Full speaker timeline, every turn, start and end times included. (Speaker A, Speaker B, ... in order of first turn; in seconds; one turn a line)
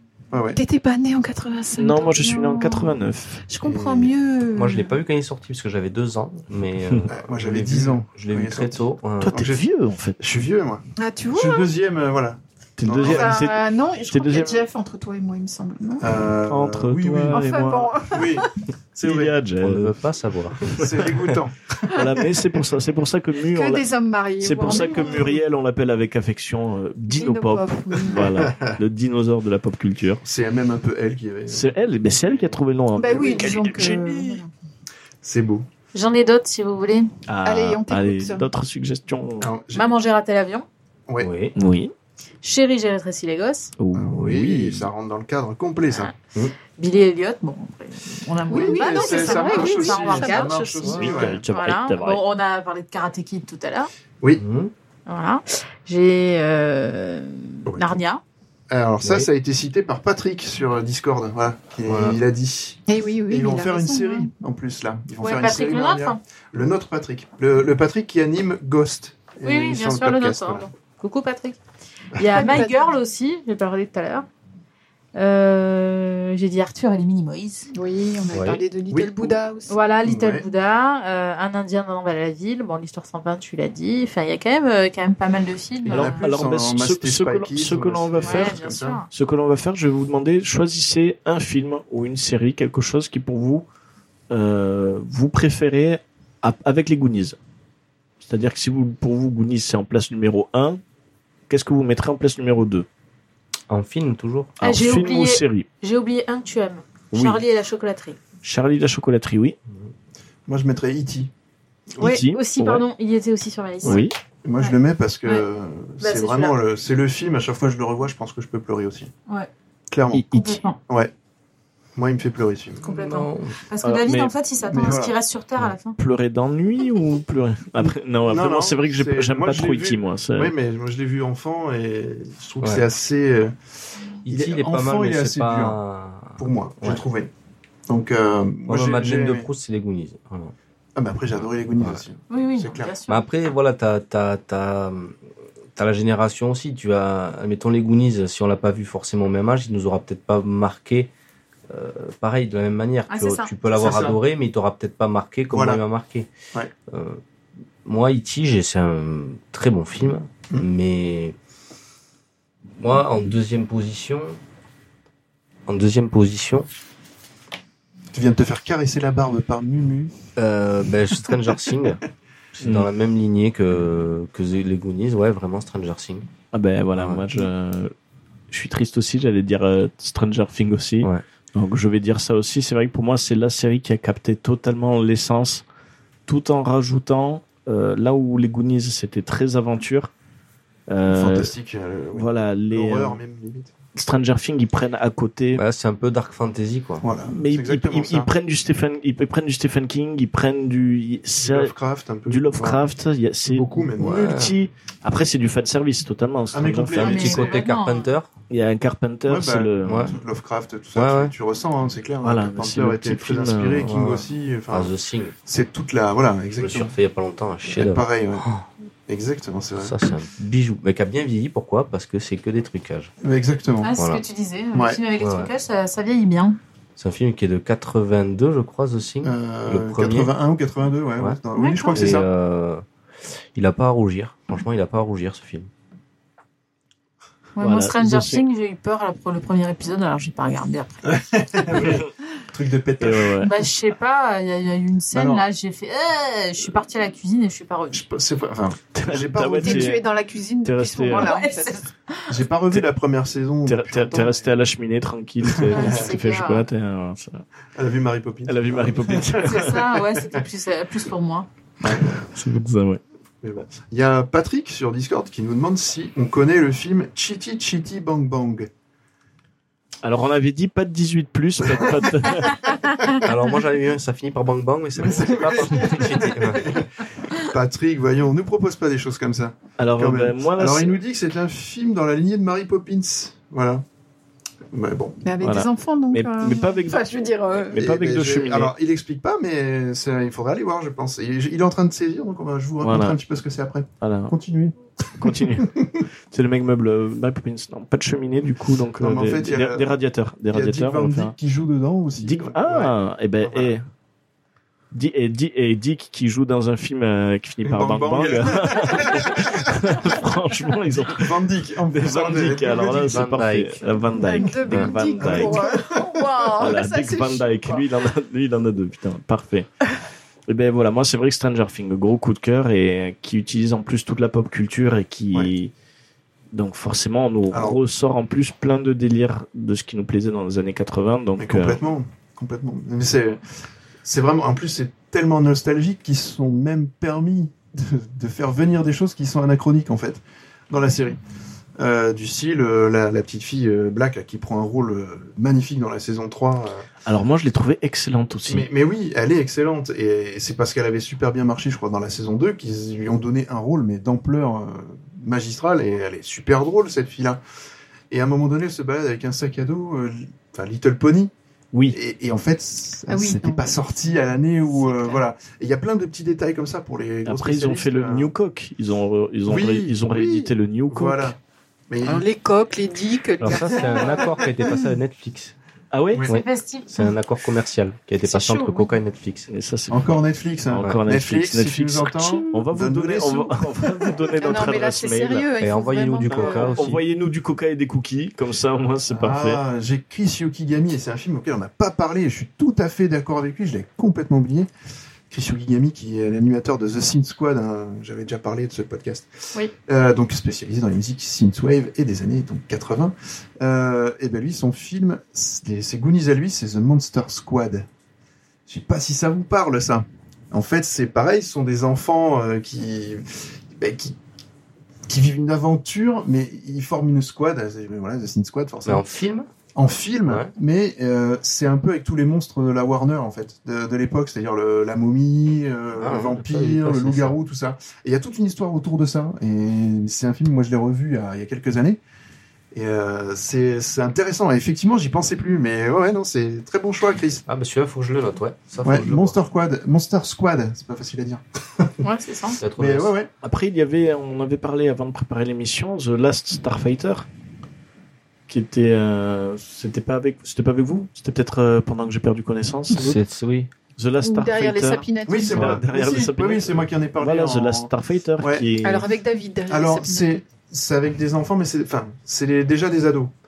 Speaker A: 0.3-0.6
Speaker B: 0.6-4.9
Speaker C: 1.8-3.4
Speaker A: 3.6-4.1
Speaker D: 4.5-9.4
Speaker A: 7.1-9.7
Speaker C: 9.2-10.2
Speaker A: 10.2-13.3
Speaker B: 11.0-11.7
Speaker C: 12.8-14.6
Speaker B: 13.0-16.3
Speaker A: 16.0-17.4
Speaker C: 16.5-18.0
Speaker B: 17.3-18.5
Speaker A: 18.1-19.3
Speaker C: 19.0-19.9
Speaker D: 19.6-20.7
Speaker C: 20.7-21.1
Speaker A: 20.7-22.1
Speaker C: 21.9-23.9
Speaker B: 23.5-25.4
Speaker C: 24.4-30.2
Speaker B: 27.1-28.3
Speaker A: 28.4-28.7
Speaker A: 30.2-31.7
Speaker C: 31.5-34.4
Speaker B: 33.0-34.5
Speaker A: 33.1-33.5
Speaker A: 35.2-35.6
Speaker E: 35.9-37.1
Speaker C: 37.3-39.5
Speaker B: 37.4-38.5
Speaker A: 39.4-39.9
Speaker E: 39.7-40.6
Speaker D: 41.2-41.5
Speaker C: 41.5-41.9
Speaker E: 42.4-43.7
Speaker C: 43.8-44.9
Speaker A: 43.9-46.1
Speaker E: 46.8-50.6
Speaker B: 48.5-51.2
Speaker A: 48.5-51.4
Speaker C: 50.9-52.2
Speaker E: 51.5-53.9
Speaker D: 54.4-54.7
Speaker E: 55.1-58.2
Speaker A: 57.7-58.0
Speaker A: 58.7-70.7
Speaker D: 59.0-59.3
Speaker D: 61.9-62.2
Speaker B: 62.9-64.3
Speaker E: 65.2-66.2
Speaker E: 69.4-71.6
Speaker A: 72.2-72.5
Speaker E: 72.2-74.3
Speaker B: 72.3-72.9
Speaker E: 75.1-77.7
Speaker B: 77.7-79.8
Speaker D: 78.3-78.6
Speaker A: 78.9-79.4
Speaker E: 79.7-86.3
Speaker A: 80.0-80.5
Speaker A: 85.8-89.0
Speaker C: 85.9-88.6
Speaker E: 88.2-89.1
Speaker C: 89.1-93.6
Speaker C: 94.3-97.4
Speaker C: 98.2-100.8
Speaker C: 101.5-102.9
Speaker D: 103.7-104.5
Speaker C: 104.6-105.7
Speaker E: 104.6-108.2
Speaker C: 107.1-107.4
Speaker C: 108.4-109.5
Speaker A: 110.5-111.3
Speaker C: 112.0-112.8
Speaker E: 112.0-114.0
Speaker A: 113.8-119.1
Speaker C: 113.8-114.1
Speaker E: 114.6-115.5
Speaker E: 116.0-116.6
Speaker A: 119.9-120.3
Speaker C: 120.1-120.6
Speaker E: 120.3-120.8
Speaker A: 122.0-122.9
Speaker E: 122.8-126.0
Speaker D: 122.8-123.5
Speaker C: 123.8-124.3
Speaker A: 124.7-125.1
Speaker C: 126.0-130.5
Speaker A: 128.3-133.5
Speaker D: 132.6-132.8
Speaker D: 134.2-137.0
Speaker A: 134.3-135.8
Speaker A: 136.4-137.3
Speaker A: 137.9-139.5
Speaker D: 138.7-140.5
Speaker A: 140.9-142.9
Speaker E: 142.3-143.2
Speaker D: 143.1-145.2
Speaker D: 145.8-151.1
Speaker D: 151.7-156.3
Speaker E: 153.1-153.5
Speaker A: 153.7-154.2
Speaker A: 155.5-155.8
Speaker D: 156.9-157.2
Speaker D: 157.8-161.3
Speaker D: 162.8-164.4
Speaker D: 165.7-166.7
Speaker A: 168.1-170.1
Speaker D: 170.3-172.0
Speaker D: 172.5-176.3
Speaker C: 172.6-172.9
Speaker C: 176.5-177.9
Speaker D: 176.9-177.3
Speaker C: 178.5-185.6
Speaker C: 186.3-190.1
Speaker C: 190.9-191.5
Speaker A: 191.1-193.7
Speaker C: 192.1-193.2
Speaker C: 193.9-195.6
Speaker D: 195.5-197.0
Speaker A: 197.0-198.3
Speaker C: 197.3-201.7
Speaker A: 201.4-202.8
Speaker C: 202.3-207.2
Speaker A: 203.5-204.4
Speaker D: 204.0-204.5
Speaker A: 206.5-207.6
Speaker D: 206.9-208.3
Speaker E: 207.0-208.1
Speaker C: 208.5-210.1
Speaker A: 209.3-214.9
Speaker D: 209.8-210.2
Speaker D: 210.9-211.3
Speaker C: 212.2-213.9
Speaker D: 213.8-215.3
Speaker A: 215.4-216.9
Speaker D: 216.6-218.7
Speaker A: 217.7-218.4
Speaker A: 219.1-220.0
Speaker D: 219.8-223.1
Speaker A: 223.2-223.9
Speaker E: 223.8-226.6
Speaker D: 223.9-224.2
Speaker A: 224.7-225.0
Speaker D: 225.2-225.5
Speaker D: 227.0-230.3
Speaker A: 229.2-232.3
Speaker E: 231.6-232.1
Speaker D: 231.9-232.8
Speaker D: 233.5-235.7
Speaker E: 237.6-241.0
Speaker C: 237.6-238.4
Speaker A: 241.1-243.5
Speaker C: 241.8-242.0
Speaker C: 243.0-243.5
Speaker E: 243.4-248.0
Speaker A: 245.1-245.4
Speaker A: 247.9-249.9
Speaker C: 248.9-250.0
Speaker B: 249.6-251.9
Speaker C: 250.6-251.4
Speaker E: 251.1-252.3
Speaker A: 252.3-254.5
Speaker C: 253.7-257.4
Speaker A: 255.5-256.1
Speaker E: 255.7-256.7
Speaker A: 257.7-260.4
Speaker C: 258.4-259.8
Speaker E: 259.4-261.5
Speaker A: 261.8-262.3
Speaker C: 261.9-263.0
Speaker A: 263.4-268.7
Speaker C: 270.0-272.6
Speaker A: 271.6-272.4
Speaker D: 273.2-276.8
Speaker A: 275.0-283.8
Speaker C: 279.8-281.0
Speaker A: 284.7-285.3
Speaker B: 285.2-287.8
Speaker C: 285.4-288.7
Speaker A: 287.8-296.0
Speaker C: 292.8-293.2
Speaker C: 294.0-294.3
Speaker C: 295.2-295.7
Speaker C: 296.3-301.3
Speaker A: 299.0-299.9
Speaker A: 300.5-303.8
Speaker C: 302.2-303.8
Speaker C: 304.9-311.3
Speaker A: 307.6-310.0
Speaker A: 311.1-313.3
Speaker C: 311.9-315.6
Speaker D: 313.0-313.8
Speaker B: 314.1-317.8
Speaker A: 315.2-316.1
Speaker C: 316.6-319.7
Speaker C: 320.5-325.7
Speaker C: 326.5-331.8
Speaker A: 327.5-327.8
Speaker A: 331.4-333.4
Speaker A: 334.0-341.2
Speaker A: 341.8-346.9
Speaker C: 347.1-348.7
Speaker A: 348.5-357.4
Speaker A: 358.1-361.3
Speaker A: 361.9-368.3
Speaker B: 363.1-363.6
Speaker B: 364.8-365.2
Speaker C: 367.2-371.4
Speaker A: 369.5-371.4
Speaker A: 371.9-372.2
Speaker B: 372.0-374.6
Speaker D: 373.4-375.5
Speaker C: 375.9-376.2
Speaker D: 376.2-379.5
Speaker E: 376.3-377.1
Speaker B: 378.3-378.8
Speaker C: 379.5-380.1
Speaker A: 379.9-384.1
Speaker C: 380.7-385.5
Speaker B: 384.4-386.9
Speaker D: 385.6-387.0
Speaker C: 386.3-389.6
Speaker A: 389.1-394.7
Speaker A: 395.3-407.9
Speaker A: 408.7-414.1
Speaker A: 415.1-419.0
Speaker D: 418.8-419.5
Speaker A: 419.7-432.0
Speaker D: 420.2-420.5
Speaker D: 425.9-427.4
Speaker A: 432.7-437.4
Speaker D: 437.5-439.4
Speaker A: 438.8-442.0
Speaker E: 442.0-442.6
Speaker D: 442.6-443.1
Speaker A: 442.8-443.3
Speaker C: 443.4-447.3
Speaker C: 448.5-453.2
Speaker D: 452.9-453.7
Speaker C: 454.0-459.1
Speaker B: 454.2-455.8
Speaker A: 455.3-458.7
Speaker B: 458.8-460.4
Speaker A: 459.7-463.3